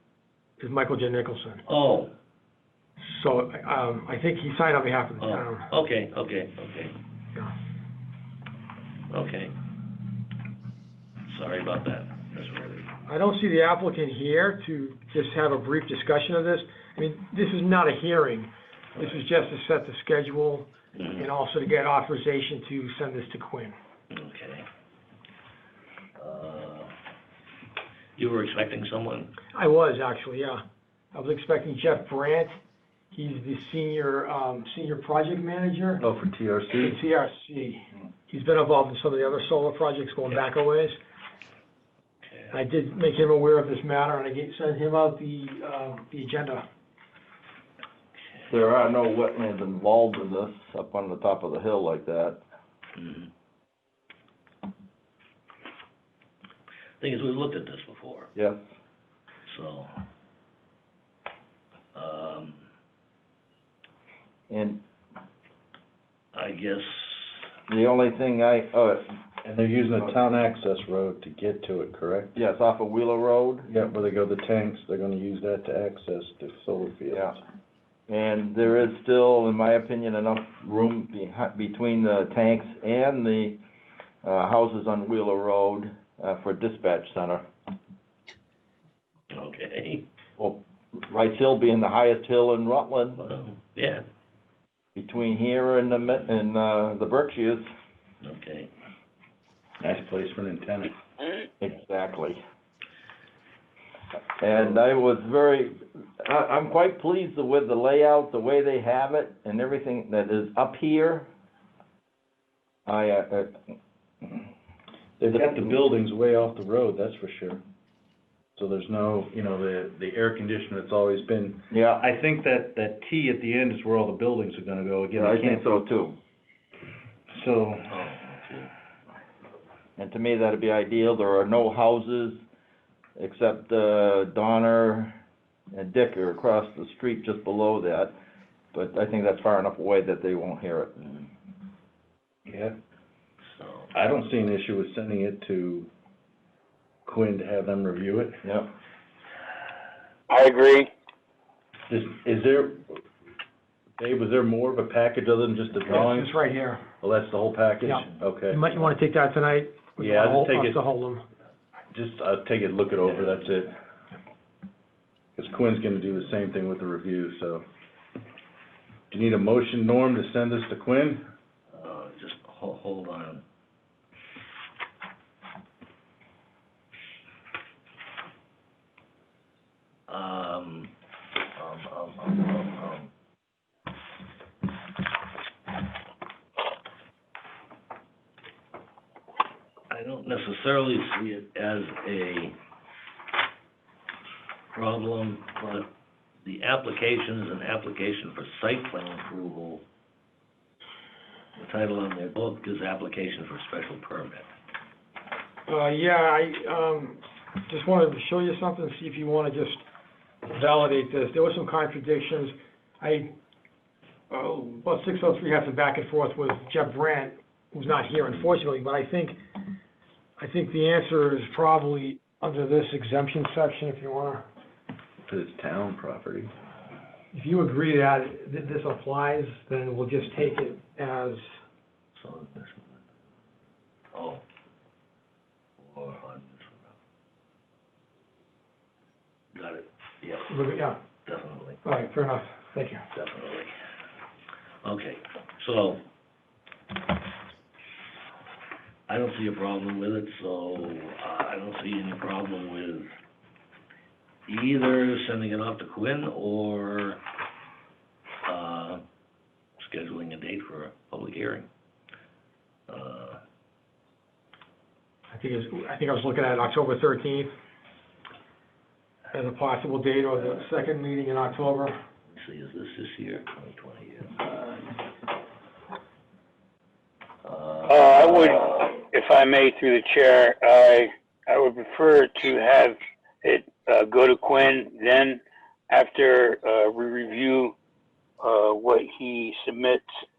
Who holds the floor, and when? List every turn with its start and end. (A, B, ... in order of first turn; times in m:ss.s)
0:00.6-0:01.6 A
0:01.7-0:02.1 B
0:03.0-0:05.7 A
0:05.2-0:07.0 B
0:09.1-0:09.6 B
0:11.3-0:12.9 B
0:13.1-0:23.7 A
0:21.0-0:21.3 B
0:24.1-0:24.6 B
0:26.2-0:26.9 B
0:28.2-0:29.4 B
0:29.5-0:30.6 A
0:31.1-0:32.6 A
0:33.1-0:36.0 A
0:36.0-0:37.0 C
0:36.8-0:41.0 A
0:42.2-0:42.5 B
0:42.5-0:46.6 A
0:48.5-0:52.4 D
0:53.0-0:53.3 B
0:57.0-0:58.3 B
0:58.4-0:58.6 D
0:59.5-0:59.9 B
1:01.9-1:02.6 B
1:04.5-1:04.8 D
1:06.3-1:07.4 B
1:07.7-1:09.1 D
1:09.4-1:12.4 C
1:12.4-1:13.7 D
1:13.7-1:17.3 C
1:17.1-1:17.4 D
1:18.1-1:23.6 D
1:24.2-1:27.5 D
1:29.3-1:30.1 B
1:30.4-1:33.3 D
1:33.2-1:34.0 B
1:35.0-1:37.7 D
1:38.2-1:38.7 B
1:39.8-1:40.9 C
1:41.6-1:42.4 D
1:44.4-1:51.3 D
1:52.9-1:53.6 D
1:55.2-1:57.6 C
1:58.6-2:05.7 C
2:01.7-2:02.0 D
2:05.2-2:06.2 D
2:07.3-2:08.0 C
2:07.9-2:08.7 B
2:10.0-2:12.4 D
2:13.2-2:15.2 D
2:15.7-2:18.1 D
2:18.7-2:21.3 D
2:22.5-2:22.8 C
2:23.6-2:23.9 B
2:23.9-2:25.9 C
2:27.0-2:28.4 C
2:28.4-2:28.7 D
2:30.3-2:30.8 E
2:31.9-2:33.0 C
2:34.0-2:36.3 C
2:35.8-2:36.8 A
2:37.0-2:38.8 C
2:37.8-2:41.2 A
2:40.0-2:40.8 C
2:41.9-2:43.8 C
2:43.2-2:43.4 B
2:45.4-2:47.6 C
2:49.1-2:51.2 C
2:51.7-2:53.4 B
3:00.1-3:00.9 B
3:01.5-3:03.1 B
3:09.9-3:12.6 B
3:14.7-3:15.9 B
3:16.4-3:19.8 B
3:21.6-3:24.5 B
3:25.7-3:29.8 A
3:30.5-3:33.3 A
3:34.3-3:39.4 A
3:40.4-3:44.4 A
3:45.3-3:46.5 C
3:47.3-3:51.5 A
3:52.2-3:53.0 B
3:54.1-3:54.4 B
3:55.8-3:56.9 B
3:59.5-4:00.5 B
4:00.5-4:01.0 A
4:01.2-4:01.8 B
4:01.8-4:03.0 A
4:03.1-4:03.7 B
4:04.8-4:06.0 B
4:09.1-4:13.1 B
4:14.5-4:17.2 B
4:18.4-4:19.0 B
4:19.8-4:21.7 B
4:22.9-4:23.4 B
4:25.3-4:27.5 A
4:29.3-4:32.0 A
4:32.3-4:34.9 B
4:37.4-4:38.8 B
4:37.9-4:45.4 E
4:45.9-4:47.7 E
4:48.4-4:50.0 E